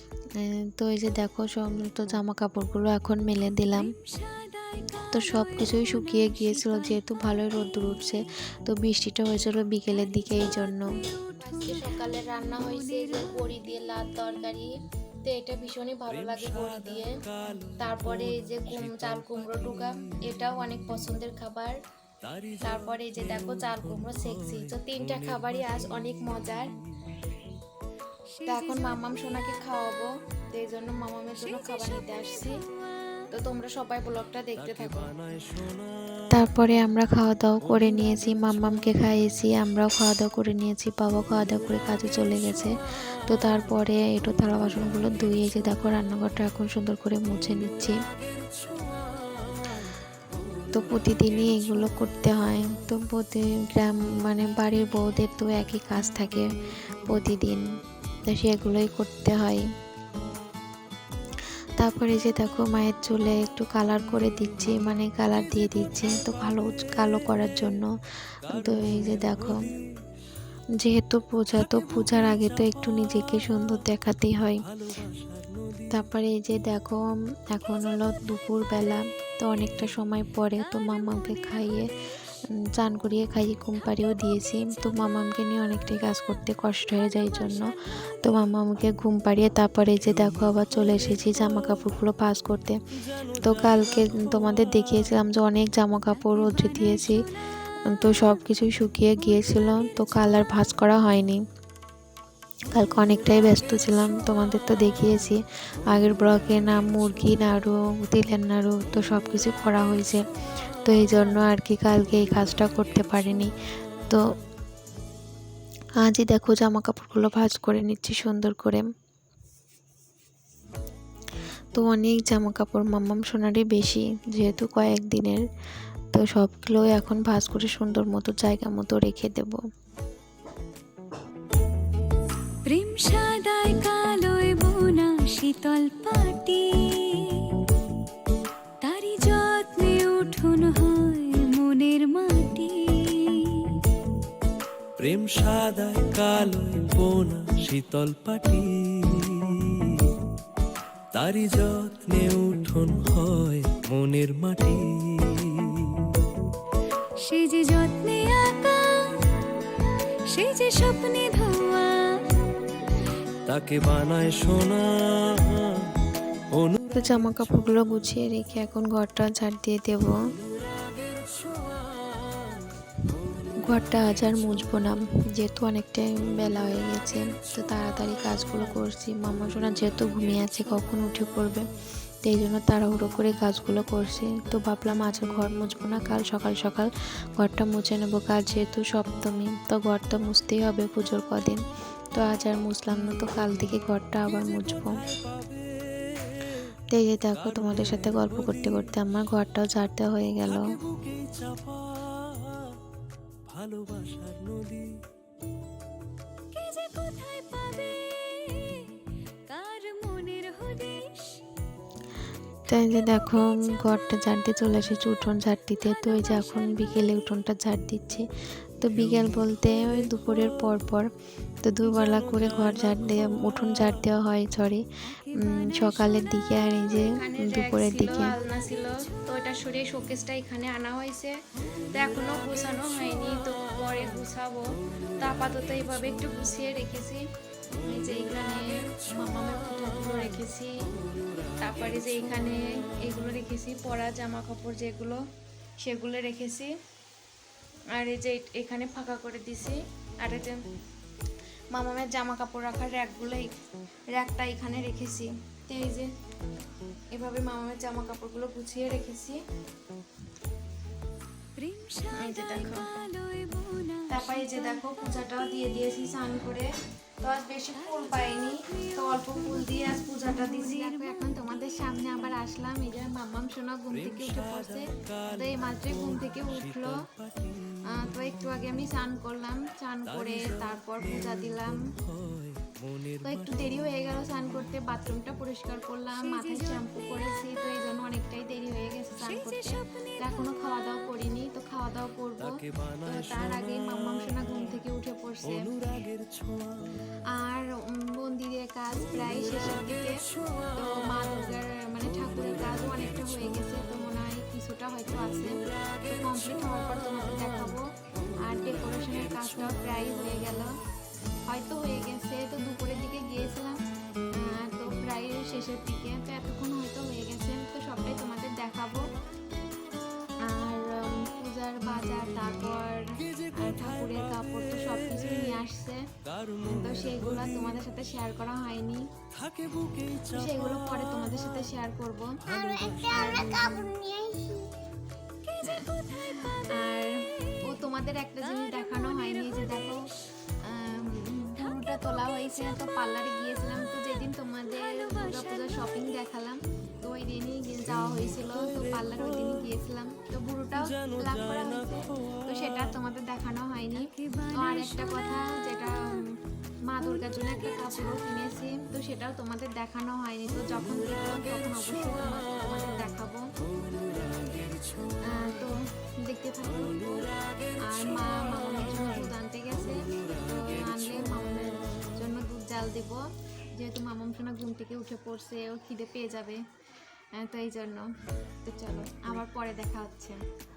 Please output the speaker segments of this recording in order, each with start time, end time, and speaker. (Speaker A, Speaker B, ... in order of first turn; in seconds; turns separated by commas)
Speaker A: 0.4-3.9, Speaker B: 3.7-7.1, Speaker A: 5.1-10.9, Speaker B: 9.9-14.1, Speaker C: 11.4-14.7, Speaker C: 15.2-17.2, Speaker D: 16.1-20.2, Speaker C: 17.8-21.7, Speaker D: 22.2-26.0, Speaker C: 22.6-26.7, Speaker B: 28.3-29.4, Speaker C: 28.4-32.5, Speaker B: 31.4-32.6, Speaker C: 33.3-35.1, Speaker D: 34.6-35.9, Speaker A: 36.3-42.7, Speaker D: 37.8-38.5, Speaker A: 43.3-48.0, Speaker A: 50.7-56.5, Speaker A: 57.1-57.6, Speaker A: 58.3-59.6, Speaker A: 61.8-67.9, Speaker A: 68.5-69.6, Speaker D: 68.5-69.6, Speaker A: 70.8-74.6, Speaker D: 74.8-75.8, Speaker A: 75.9-81.9, Speaker A: 82.6-92.8, Speaker A: 93.3-97.2, Speaker B: 96.4-97.3, Speaker A: 97.9-101.4, Speaker A: 102.7-110.2, Speaker A: 110.8-113.5, Speaker A: 116.0-118.8, Speaker A: 121.7-125.4, Speaker A: 126.1-129.6, Speaker B: 132.7-137.6, Speaker B: 138.8-143.8, Speaker D: 145.0-150.2, Speaker D: 151.1-156.1, Speaker B: 157.2-159.2, Speaker B: 160.3-162.4, Speaker D: 163.4-165.8, Speaker D: 166.5-166.8, Speaker A: 166.9-170.1, Speaker A: 173.7-181.6, Speaker A: 182.2-191.6, Speaker A: 192.1-194.9, Speaker A: 196.9-200.7, Speaker D: 197.6-198.7, Speaker D: 200.7-202.8, Speaker D: 203.5-205.0, Speaker B: 206.5-211.4, Speaker A: 212.7-218.2, Speaker B: 215.8-217.2, Speaker A: 218.8-221.1, Speaker A: 221.6-224.8, Speaker C: 222.0-223.0, Speaker B: 225.1-226.5, Speaker A: 225.4-228.3, Speaker C: 226.8-231.3, Speaker C: 231.9-234.7, Speaker C: 235.2-237.2, Speaker C: 237.8-240.7, Speaker C: 241.6-245.2, Speaker C: 245.8-246.7, Speaker C: 247.9-250.6, Speaker C: 251.7-253.5, Speaker C: 254.1-256.1, Speaker C: 257.1-259.4, Speaker B: 261.6-264.8, Speaker C: 262.1-262.9, Speaker C: 264.1-266.7, Speaker C: 267.2-277.1, Speaker B: 267.7-271.5, Speaker D: 274.0-277.7, Speaker C: 277.9-281.8, Speaker D: 280.1-283.4, Speaker C: 283.2-295.7, Speaker B: 286.2-287.0, Speaker B: 289.2-290.5, Speaker D: 292.5-293.8, Speaker D: 295.6-296.9, Speaker C: 297.3-300.2, Speaker C: 300.8-307.8, Speaker C: 308.4-310.7, Speaker C: 311.5-313.8, Speaker C: 314.4-319.0, Speaker C: 320.4-326.0, Speaker D: 326.4-327.1, Speaker C: 326.6-329.1, Speaker D: 329.5-330.3, Speaker C: 330.3-334.7, Speaker D: 332.6-333.2, Speaker B: 335.5-336.2, Speaker C: 335.6-340.1, Speaker B: 338.6-339.9, Speaker C: 340.6-356.0, Speaker B: 344.9-345.9, Speaker B: 353.9-355.5, Speaker C: 356.9-363.5, Speaker B: 357.2-358.2, Speaker C: 365.1-367.2, Speaker C: 367.8-373.2, Speaker C: 373.8-376.6, Speaker C: 377.4-378.1, Speaker C: 378.6-380.4